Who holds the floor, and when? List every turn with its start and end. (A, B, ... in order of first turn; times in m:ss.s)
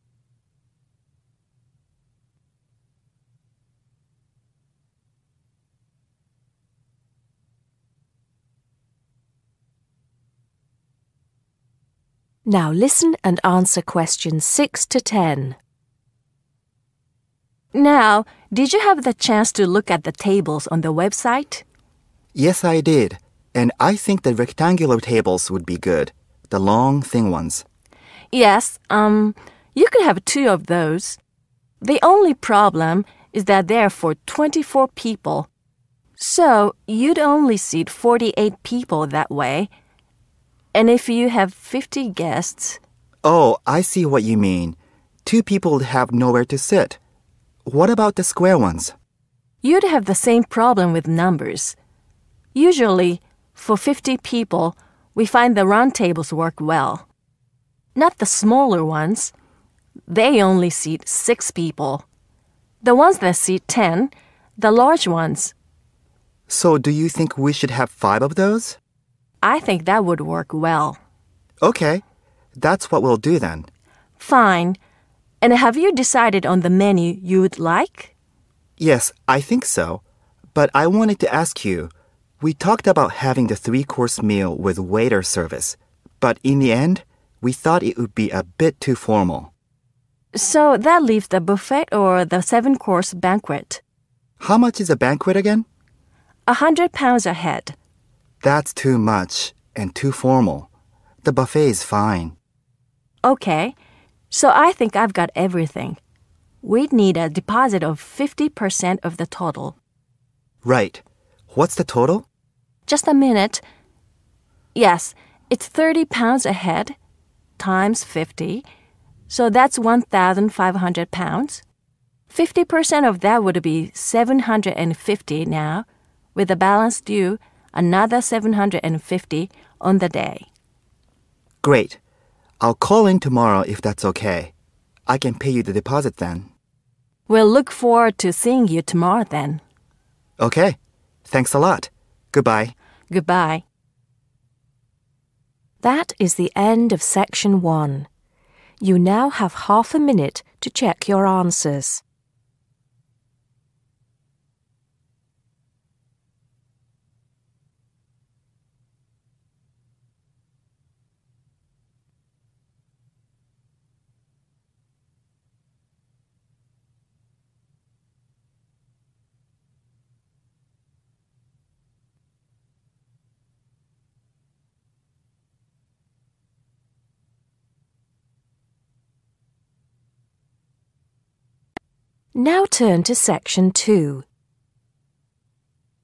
0:12.4-0:15.6 A
0:17.7-0:21.6 B
0:22.3-0:27.6 C
0:28.3-0:31.2 B
0:31.8-0:35.5 B
0:36.2-0:39.7 B
0:40.7-0:42.8 B
0:43.2-0:47.0 C
0:47.7-0:48.9 C
0:49.6-0:51.8 B
0:52.5-0:57.1 B
0:57.9-0:59.3 B
1:00.1-1:02.0 B
1:02.8-1:05.5 B
1:06.5-1:08.8 C
1:09.4-1:11.0 B
1:11.6-1:12.0 C
1:12.6-1:13.7 C
1:14.2-1:14.8 B
1:15.4-1:18.1 B
1:18.8-1:20.0 C
1:20.5-1:29.5 C
1:30.3-1:33.8 B
1:34.4-1:35.7 C
1:36.5-1:37.7 B
1:38.4-1:40.7 C
1:41.2-1:42.4 C
1:43.2-1:43.7 B
1:44.3-1:46.0 B
1:46.6-1:49.8 B
1:50.6-1:52.3 C
1:52.9-1:53.6 B
1:54.7-1:57.0 B
1:57.6-1:58.6 B
1:59.3-2:01.6 B
2:02.3-2:10.5 B
2:11.6-2:12.0 C
2:12.6-2:14.5 C
2:15.1-2:16.5 C
2:17.3-2:19.6 B
2:20.4-2:22.7 C
2:23.1-2:23.6 B
2:25.8-2:28.1 A
2:28.8-2:32.0 A
3:02.3-3:04.2 A